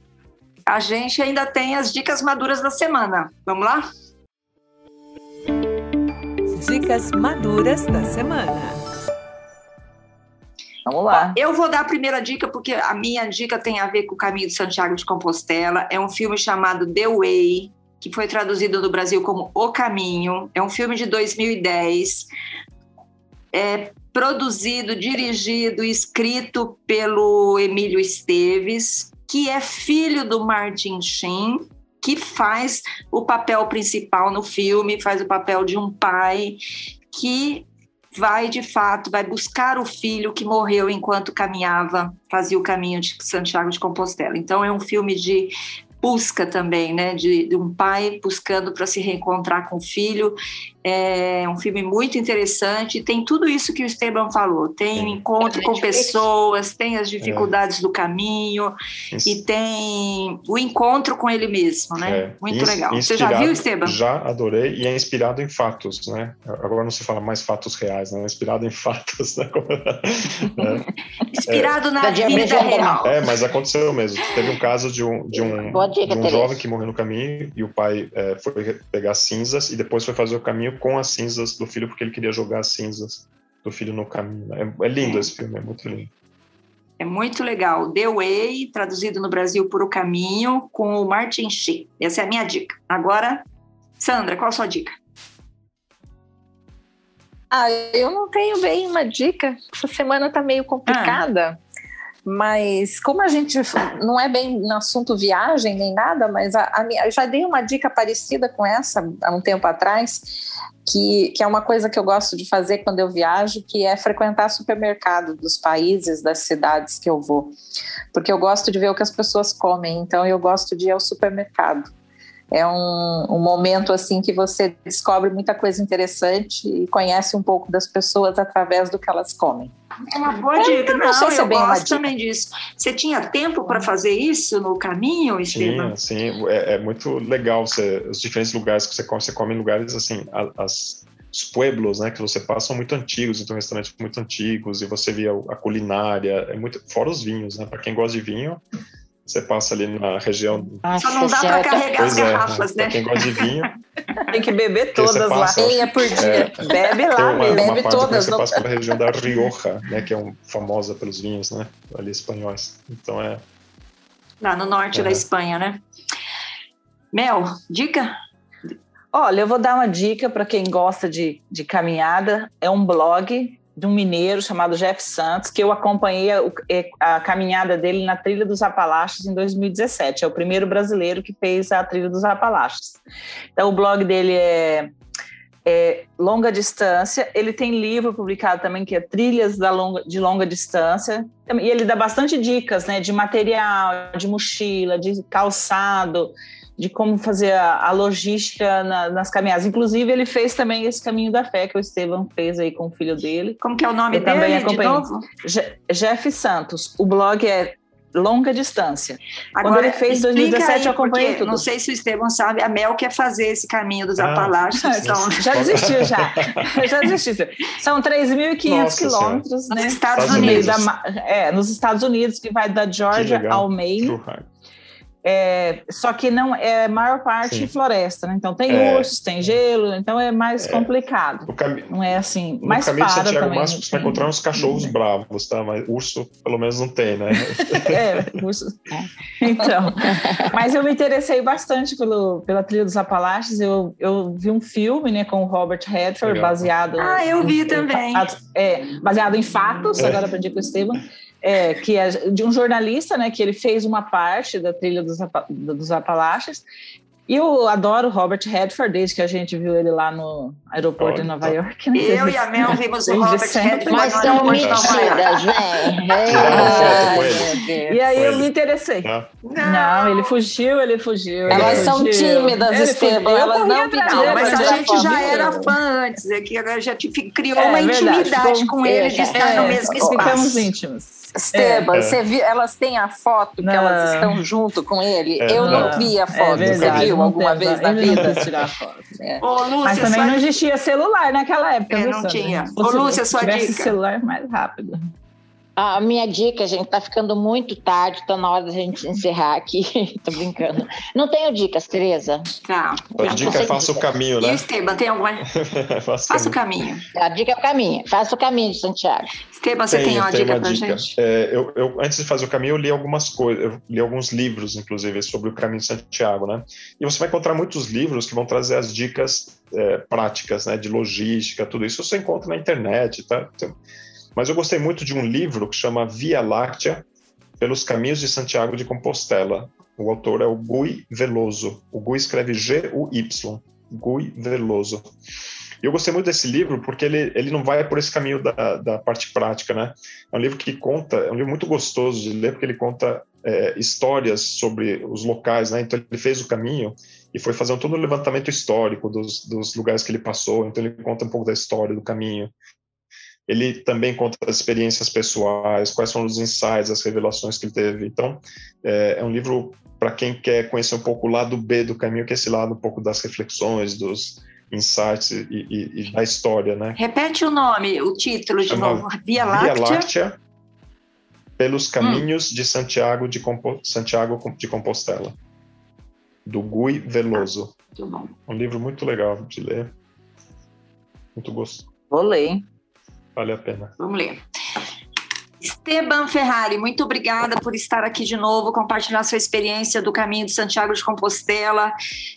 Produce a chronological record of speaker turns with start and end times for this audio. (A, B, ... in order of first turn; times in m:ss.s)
0:00.7-0:03.9 A
0:06.6-0:08.8 B
0:10.8-0:11.4 C
0:11.1-0:22.3 A
0:23.5-0:58.7 A
0:54.9-0:55.2 D
0:55.4-0:56.2 E
0:57.2-0:57.5 D
0:59.1-0:59.4 D
0:59.2-1:04.0 A
1:02.0-1:10.8 D
1:11.3-1:13.2 A
1:11.5-1:11.8 D
1:12.0-1:13.0 E
1:13.0-1:26.1 D
1:15.3-1:16.6 E
1:27.0-1:33.4 A
1:34.0-1:35.0 A
1:37.5-1:41.6 F
1:40.9-1:41.2 A
1:42.2-1:57.5 F
1:58.1-2:01.9 F
2:02.5-2:09.7 F
2:10.1-2:15.9 A
2:10.6-2:12.1 F
2:15.5-2:28.6 D
2:29.2-2:30.8 D
2:30.8-2:31.8 E
2:31.0-2:33.6 A
2:31.9-2:33.7 D
2:34.3-2:38.1 C
2:34.9-2:43.4 D
2:35.5-2:39.1 F
2:44.4-2:45.8 A
2:44.9-2:45.2 D
2:47.1-2:48.1 A
2:49.1-3:03.0 C
3:03.6-3:04.9 C
3:05.6-3:23.6 C
3:23.6-3:25.2 A
3:24.1-3:31.6 C
3:29.6-3:35.8 A
3:34.2-3:36.7 D
3:34.8-3:44.1 C
3:38.6-3:39.4 D
3:39.7-3:40.8 A
3:40.1-3:40.9 D
3:43.1-3:44.5 D
3:45.2-3:54.9 C
3:47.4-3:47.7 D
3:48.7-3:49.6 D
3:50.6-3:50.9 D
3:51.5-3:52.0 D
3:52.6-3:58.4 D
3:57.4-3:58.9 C
3:59.4-4:16.6 C
4:00.1-4:00.5 E
4:06.2-4:06.7 D
4:07.0-4:08.4 A
4:10.0-4:10.3 D
4:17.3-4:24.7 C
4:21.0-4:21.6 D
4:21.9-4:25.4 A
4:23.9-4:27.2 E
4:24.6-4:25.0 D
4:26.1-4:29.1 C
4:26.3-4:27.5 D
4:26.3-4:28.0 F
4:28.2-4:28.5 D
4:29.0-4:29.3 D
4:29.4-4:30.3 A
4:29.6-4:35.7 C
4:31.4-4:32.0 D
4:31.5-4:35.5 F
4:34.0-4:40.7 A
4:37.6-4:38.7 C
4:38.8-4:39.8 E
4:39.3-4:41.9 C
4:40.0-4:40.3 F
4:41.3-4:48.4 F
4:41.9-4:42.2 D
4:43.6-4:44.4 C
4:45.4-4:47.2 D
4:45.5-4:49.1 C
4:48.1-4:48.7 D
4:49.2-4:49.4 F
4:49.4-4:50.5 A
4:49.8-4:55.1 C
4:51.9-4:53.9 A
4:55.8-5:02.5 E
5:02.6-5:03.8 A
5:03.2-5:04.7 D
5:03.2-5:04.0 E
5:04.4-5:05.5 A
5:05.4-5:06.6 D
5:06.3-5:07.0 A
5:07.1-5:09.3 E
5:09.5-5:11.1 A
5:09.9-5:23.8 D
5:24.3-5:27.0 D
5:27.6-5:35.0 D
5:35.8-5:52.5 D
5:53.5-6:07.0 D
6:07.0-6:10.1 A
6:08.7-6:10.4 D
6:11.6-6:15.3 D
6:12.0-6:12.2 A
6:16.4-6:17.7 D
6:18.0-6:18.3 A
6:18.5-6:19.9 D
6:21.3-6:21.9 D
6:22.1-6:22.6 C
6:23.3-6:23.9 D
6:24.0-6:24.4 A
6:25.6-6:31.9 A